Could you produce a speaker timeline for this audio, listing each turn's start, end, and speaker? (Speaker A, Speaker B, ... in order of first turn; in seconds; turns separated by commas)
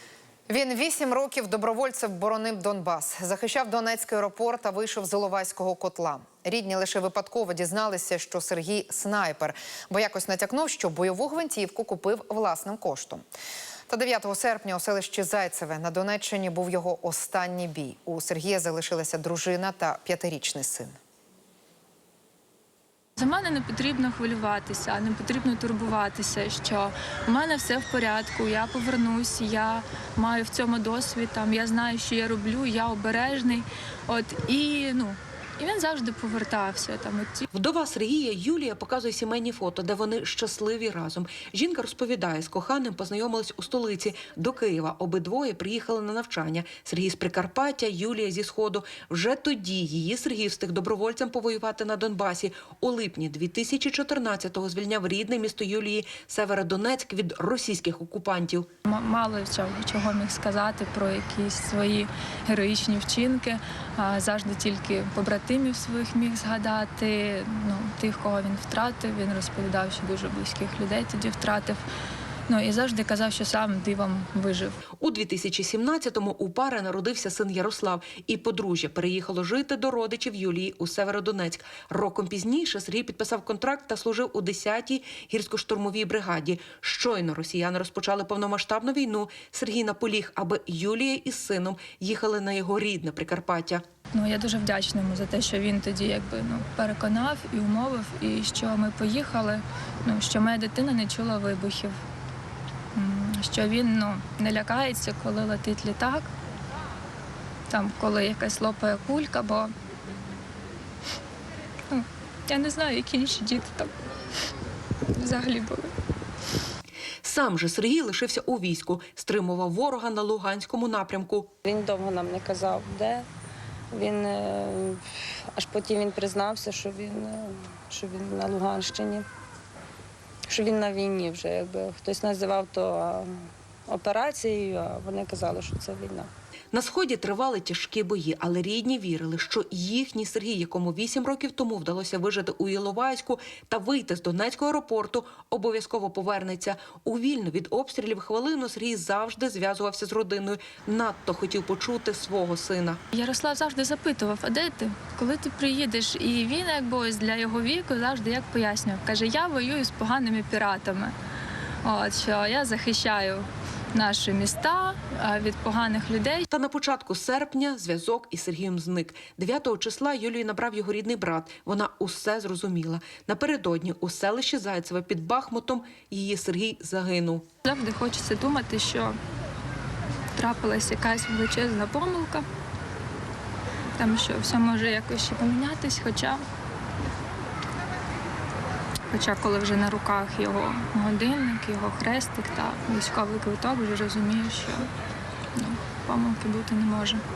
Speaker A: 0.5-13.2, Speaker A: 13.9-20.9, Speaker B: 23.2-37.5, Speaker C: 37.5-58.7, Speaker B: 58.9-71.8, Speaker B: 72.5-74.8, Speaker C: 75.0-93.8, Speaker B: 94.1-102.0, Speaker B: 102.9-106.3, Speaker B: 107.7-109.7, Speaker B: 111.9-114.0, Speaker B: 115.1-115.9, Speaker C: 117.2-121.5, Speaker D: 121.7-123.3, Speaker D: 123.9-129.3, Speaker D: 130.5-136.3, Speaker C: 136.7-153.0, Speaker B: 153.1-161.1, Speaker B: 161.8-166.5, Speaker C: 166.5-177.4, Speaker B: 177.7-179.2, Speaker B: 180.3-182.4, Speaker B: 184.0-186.4, Speaker B: 189.1-194.9, Speaker B: 195.6-197.2